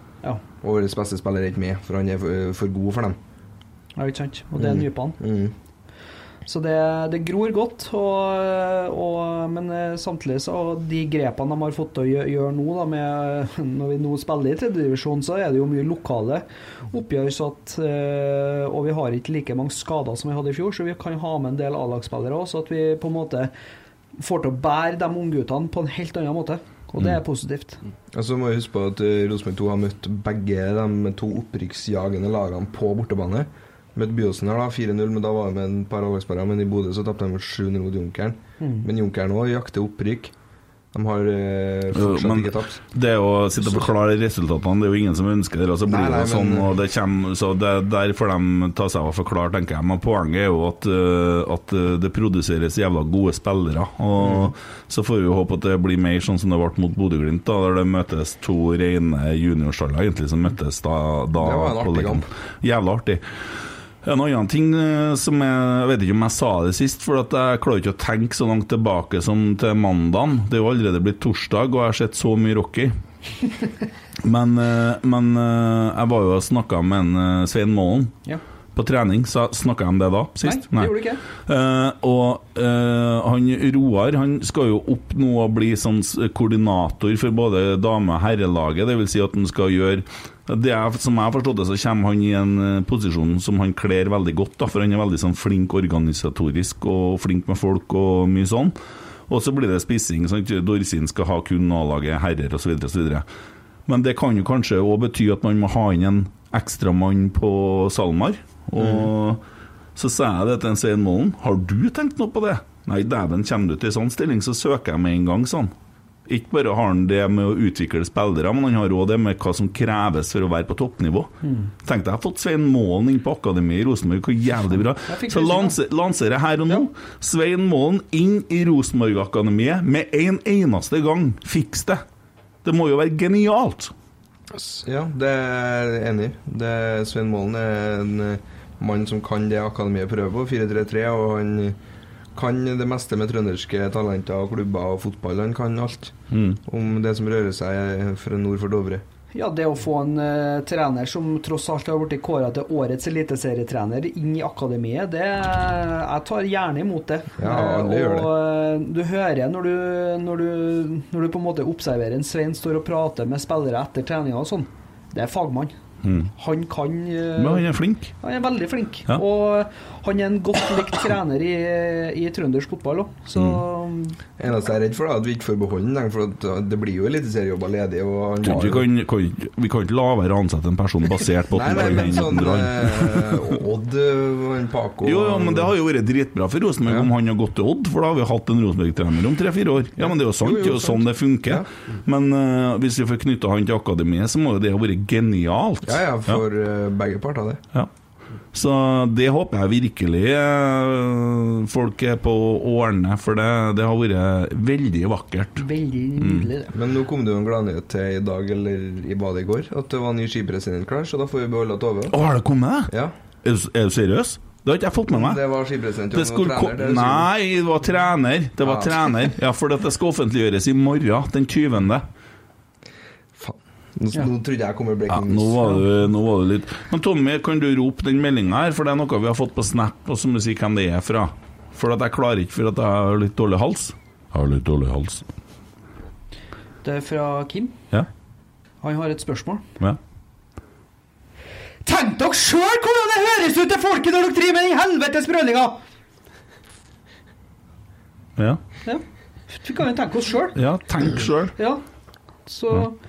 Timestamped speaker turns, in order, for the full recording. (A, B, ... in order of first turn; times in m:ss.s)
0:00.6-0:03.2 A
0:04.0-0:05.2 B
0:04.6-0:05.5 A
0:06.4-0:23.5 B
0:24.2-0:27.8 B
0:28.1-0:40.3 A
0:38.6-0:38.9 B
0:40.9-0:42.8 A
0:41.9-1:03.2 C
0:45.8-0:46.7 A
0:54.2-0:54.5 A
1:01.4-1:02.3 A
1:04.0-1:12.9 C
1:14.2-1:18.1 C
1:18.7-1:38.7 C
1:20.4-1:21.2 B
1:39.3-1:43.2 C
1:43.9-1:49.4 C
1:48.8-1:49.1 A
1:50.0-1:55.7 C
1:56.3-2:12.0 C
2:01.4-2:01.7 B
2:04.7-2:05.8 B
2:12.6-2:13.9 C
2:14.5-2:21.8 A
2:22.3-2:29.0 A
2:26.3-2:26.6 C
2:29.3-2:45.7 B
2:37.4-2:38.3 A
2:46.0-2:46.3 C
2:46.4-2:47.7 B
2:47.4-2:48.1 C
2:48.2-2:54.2 B
2:53.4-2:53.6 C
2:54.4-2:58.8 A
2:58.4-3:03.4 C
3:01.5-3:05.7 A
3:05.0-3:16.4 C
3:10.0-3:11.6 A
3:15.8-3:17.6 A
3:18.5-3:25.6 C
3:25.6-3:26.7 B
3:26.2-3:26.5 C
3:26.7-3:32.1 A
3:32.1-3:32.9 C
3:32.9-3:33.1 A
3:33.4-3:35.4 C
3:35.1-3:37.3 A
3:36.1-3:42.0 C
3:38.6-3:39.0 A
3:43.3-3:45.8 A
3:45.1-3:55.2 C
3:56.8-3:57.8 B
3:58.8-3:59.6 B
4:01.8-4:05.8 B
4:08.8-4:10.6 B
4:10.5-4:11.5 C
4:11.6-4:11.8 B
4:12.5-4:12.9 B